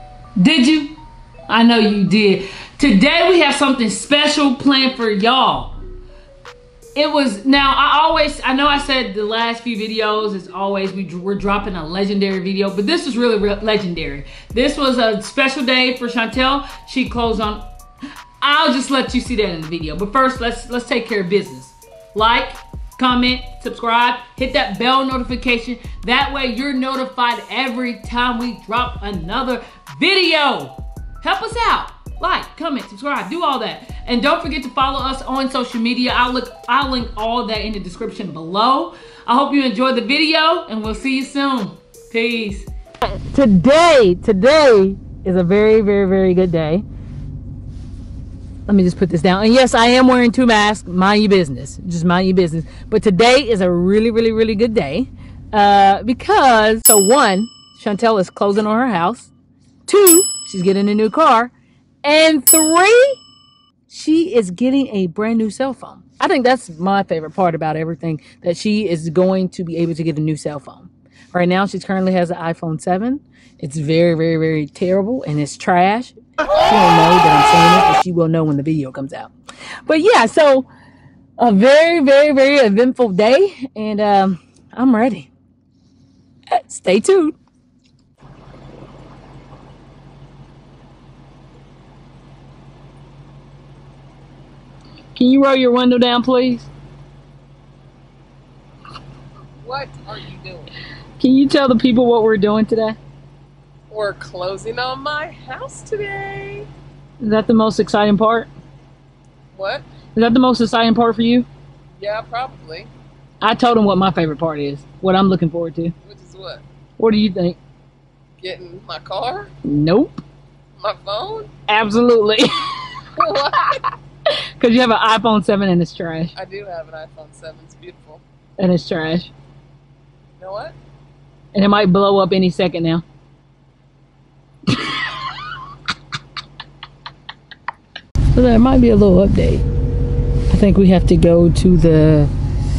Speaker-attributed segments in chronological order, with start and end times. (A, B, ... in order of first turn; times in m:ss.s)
0:00.4-0:01.0 A
0:01.5-0:05.8 A
0:07.0-0:17.6 A
0:18.4-0:46.8 A
0:48.7-0:59.3 A
0:59.9-1:01.5 A
1:02.0-1:03.2 A
1:03.9-1:19.3 A
1:19.8-1:20.7 A
1:21.4-1:25.3 A
1:26.5-1:27.4 A
1:35.2-1:36.7 A
1:39.6-1:40.7 B
1:41.2-1:43.0 A
1:43.9-1:46.7 B
1:47.2-1:48.5 A
1:49.5-1:49.8 B
1:50.2-1:51.5 A
1:52.0-1:52.9 B
1:53.4-1:55.9 A
1:56.0-1:56.6 B
1:57.0-1:57.6 A
1:58.4-1:59.5 B
1:59.6-2:00.2 A
2:00.8-2:01.5 B
2:01.7-2:02.7 A
2:03.2-2:03.8 B
2:04.6-2:06.3 A
2:06.3-2:08.2 B
2:08.6-2:09.3 A
2:10.4-2:10.8 B
2:11.5-2:13.0 A
2:18.3-2:19.6 A
2:20.5-2:22.3 A